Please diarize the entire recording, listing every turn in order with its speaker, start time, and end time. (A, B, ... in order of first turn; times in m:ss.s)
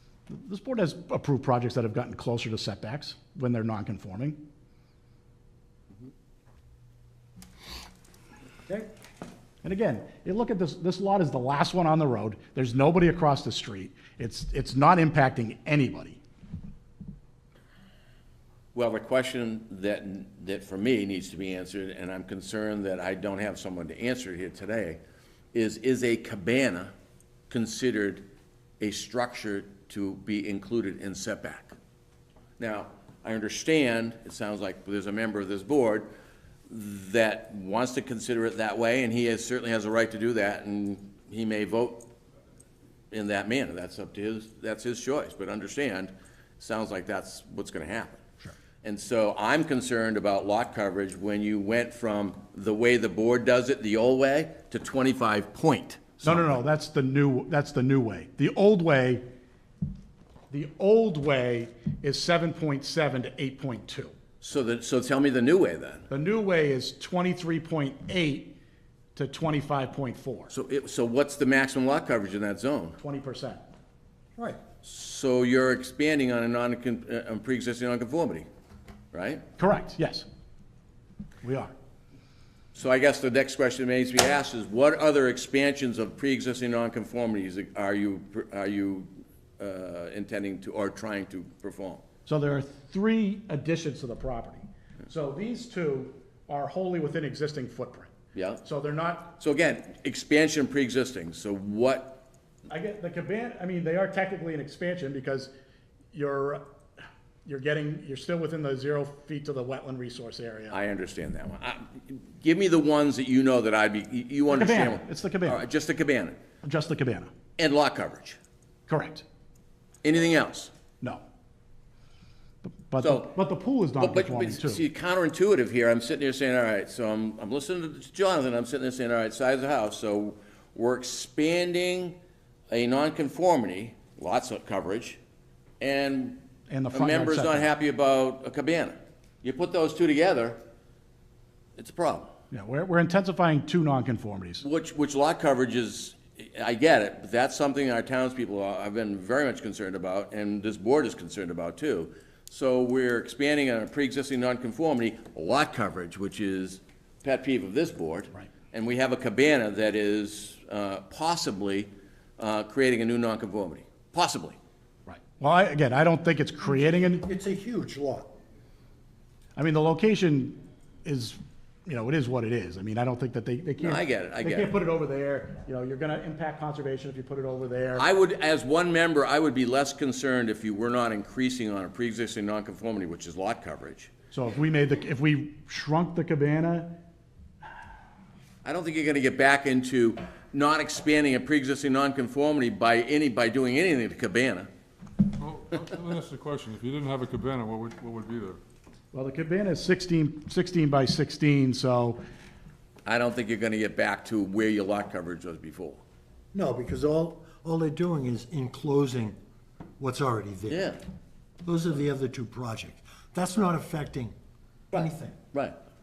0:00.3-0:04.4 A
0:09.6-0:16.2 A
0:18.7-0:25.0 B
0:25.5-0:26.9 B
0:27.5-0:28.2 B
0:28.8-0:31.7 B
0:32.6-0:36.1 B
0:36.7-0:42.0 B
0:43.1-0:48.2 B
0:48.8-0:56.6 B
0:56.2-0:59.2 A
1:00.5-1:04.1 A
1:04.4-1:06.1 B
1:06.1-1:08.6 A
1:09.1-1:10.5 A
1:10.5-1:13.0 B
1:13.0-1:13.6 A
1:14.4-1:14.6 C
1:14.8-1:18.4 B
1:19.1-1:19.4 B
1:19.6-1:20.2 A
1:21.4-1:21.7 A
1:22.7-1:32.0 B
1:32.2-1:38.1 A
1:38.3-1:38.6 B
1:38.6-1:39.4 A
1:39.4-1:42.2 B
1:42.7-1:45.5 A
1:46.1-1:46.6 A
1:47.4-1:50.8 A
1:50.7-1:56.4 B
1:54.5-1:55.6 A
1:56.6-1:57.3 A
1:57.6-1:58.4 B
1:58.9-1:59.2 A
2:00.0-2:00.7 B
2:02.6-2:04.8 A
2:03.0-2:03.3 B
2:04.0-2:12.2 B
2:12.7-2:15.2 B
2:15.8-2:16.4 B
2:16.7-2:17.7 A
2:16.9-2:20.6 B
2:21.8-2:22.3 B
2:22.5-2:24.6 A
2:24.6-2:44.6 B
2:45.1-2:47.3 A
2:47.2-2:48.3 C
2:49.6-2:58.1 A
2:53.8-2:54.7 B
2:57.9-3:04.1 B
3:04.3-3:07.0 A
3:08.6-3:14.7 B
3:15.4-3:18.6 D
3:19.1-3:22.2 A
3:23.0-3:26.0 B
3:26.5-3:29.4 C
3:30.0-3:30.9 C
3:30.7-3:31.0 B
3:31.6-3:34.3 C
3:34.9-3:35.4 C